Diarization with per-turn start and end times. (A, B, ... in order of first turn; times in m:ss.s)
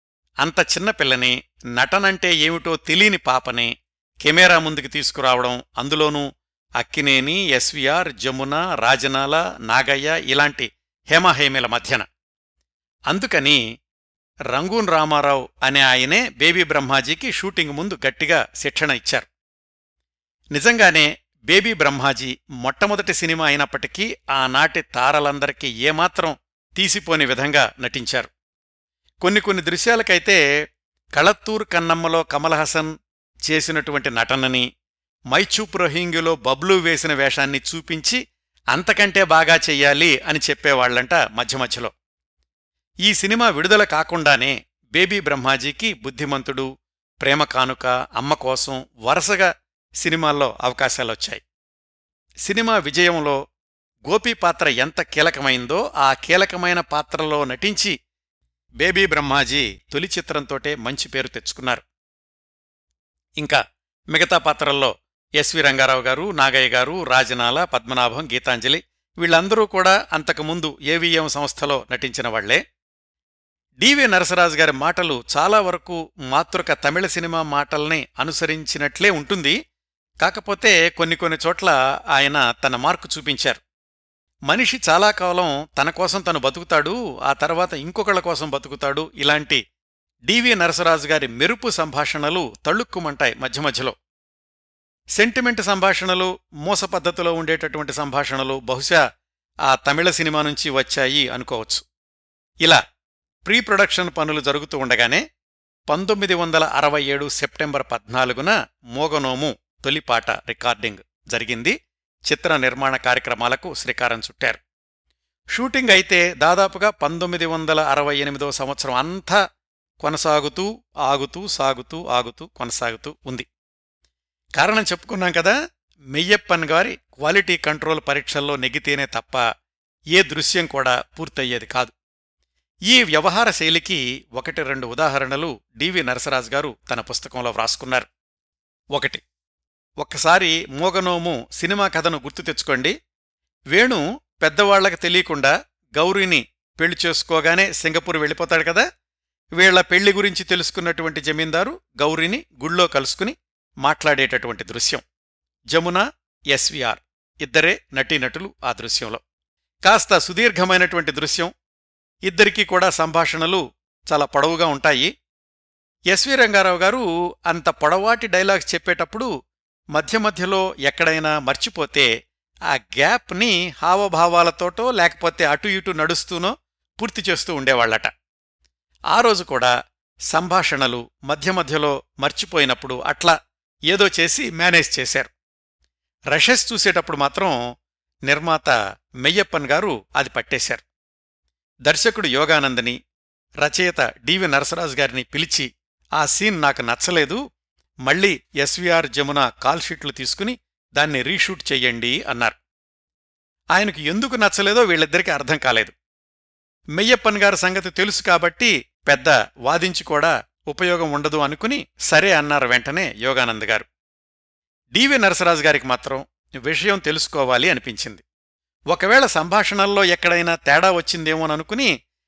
0:00.4-0:03.7 A
0:04.2-0:06.3 A
0:06.8-0:12.0 A
0:13.1-0:13.6 A
0:14.5-0:19.3 A
0:20.5-0:28.3 A
0:29.2-0:30.4 A
0:31.2-0:32.9 A
0:33.5-0:34.6 A
0:35.3-0:38.2 A
0:38.7-0:41.9 A
0:43.0-0:46.7 A
0:47.2-0:49.5 A
0:50.0-0:51.4 A
0:52.4-0:53.4 A
0:54.1-0:57.9 A
0:58.8-1:01.8 A
1:04.1-1:12.6 A
1:13.8-1:19.6 A
1:20.2-1:23.6 A
1:24.5-1:29.6 A
1:30.3-1:33.9 A
1:35.2-1:39.0 A
1:39.7-1:41.8 A
1:43.4-1:45.2 A
1:45.9-1:51.8 A
1:52.3-1:54.6 A
1:55.5-1:59.4 A
2:00.0-2:03.4 A
2:04.6-2:05.5 A
2:06.1-2:09.4 A
2:10.2-2:11.9 A
2:12.9-2:18.1 A
2:18.9-2:19.2 A
2:20.0-2:22.9 A
2:23.7-2:28.8 A
2:29.6-2:35.0 A
2:35.7-2:39.2 A
2:39.8-2:41.5 A
2:42.3-2:45.1 A
2:46.1-2:49.3 A
2:49.9-2:52.1 A
2:52.7-2:58.1 A
2:59.1-2:59.7 A
3:00.3-3:03.4 A
3:03.9-3:05.3 A
3:06.3-3:07.6 A
3:08.3-3:10.8 A
3:11.8-3:13.0 A
3:13.6-3:17.4 A
3:18.0-3:22.6 A
3:23.7-3:25.9 A
3:27.0-3:33.8 A
3:34.9-3:38.2 A
3:38.9-3:41.9 A